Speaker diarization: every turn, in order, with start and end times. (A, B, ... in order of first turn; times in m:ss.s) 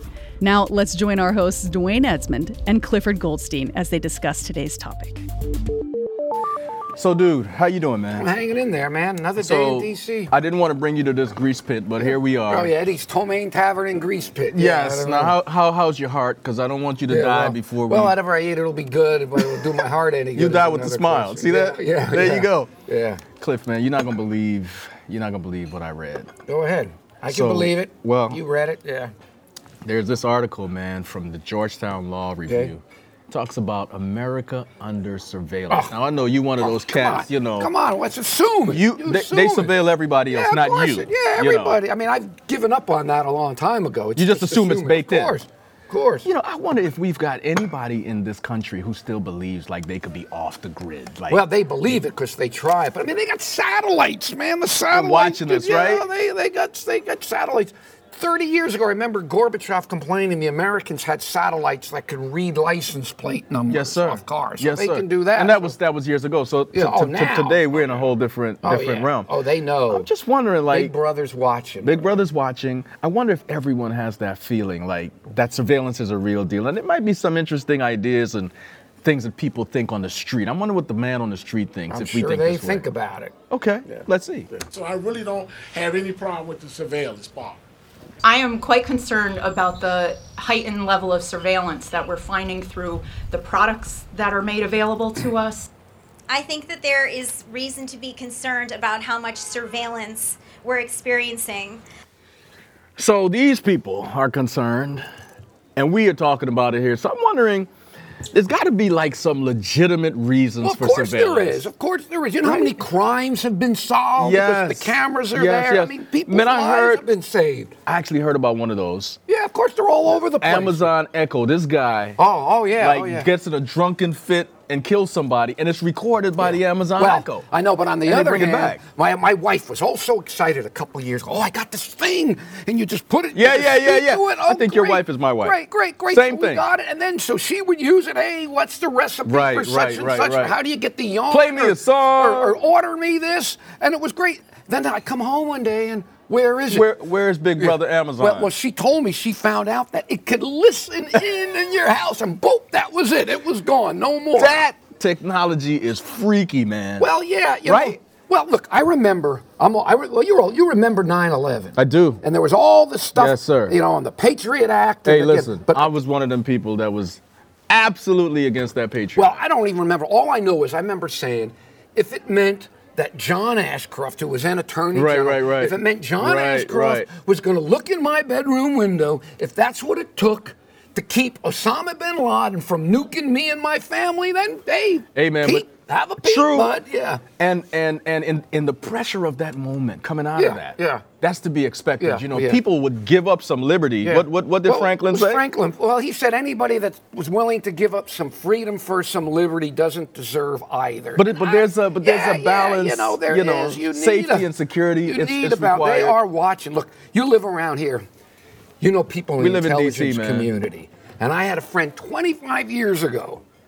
0:00.4-0:05.2 A
0:06.9-0:08.3 B
0:08.2-0:10.3 C
0:09.3-0:12.7 B
0:12.0-0:15.4 C
0:14.5-0:18.2 B
0:17.1-0:23.2 C
0:19.4-0:19.8 B
0:20.3-0:22.7 B
0:23.4-0:26.3 B
0:26.5-0:29.1 C
0:27.3-0:28.4 B
0:29.8-0:37.7 B
0:35.7-0:35.9 C
0:36.6-0:39.7 C
0:38.7-0:41.8 B
0:40.3-0:46.3 C
0:44.2-0:45.4 B
0:46.2-0:51.9 B
0:51.3-1:05.7 C
0:54.9-0:56.1 B
1:03.7-1:09.3 B
1:06.7-1:08.1 C
1:08.6-1:10.1 C
1:09.9-1:10.9 B
1:10.7-1:12.2 C
1:11.8-1:18.5 B
1:19.0-1:22.9 B
1:21.9-1:23.3 C
1:23.5-1:24.6 B
1:24.7-1:27.6 D
1:28.2-1:35.7 E
1:36.3-1:41.8 F
1:43.0-1:45.0 B
1:45.8-1:47.7 B
1:48.3-1:51.7 B
1:50.6-1:57.7 C
1:52.4-1:52.8 B
1:54.2-1:57.0 B
1:57.8-1:59.2 B
1:59.3-2:00.9 C
2:00.4-2:02.2 B
2:02.2-2:03.2 C
2:02.8-2:07.4 B
2:06.4-2:26.9 C
2:08.0-2:08.8 B
2:13.3-2:15.6 B
2:16.1-2:16.6 B
2:19.2-2:20.6 B
2:21.3-2:22.6 B
2:26.7-2:28.5 B
2:27.6-2:34.6 C
2:34.3-2:37.1 B
2:37.0-2:45.8 C
2:37.6-2:38.0 B
2:41.8-2:42.2 B
2:43.1-2:43.8 B
2:45.0-2:49.4 B
2:49.2-3:07.2 C
2:54.9-2:57.1 B
3:05.1-3:05.7 B
3:06.2-3:06.8 B
3:07.4-3:15.4 B
3:10.4-3:11.0 C
3:12.0-3:12.6 C
3:14.0-3:24.4 C
3:21.2-3:26.2 B
3:25.0-3:28.0 C
3:28.8-3:33.4 C
3:29.4-3:30.5 B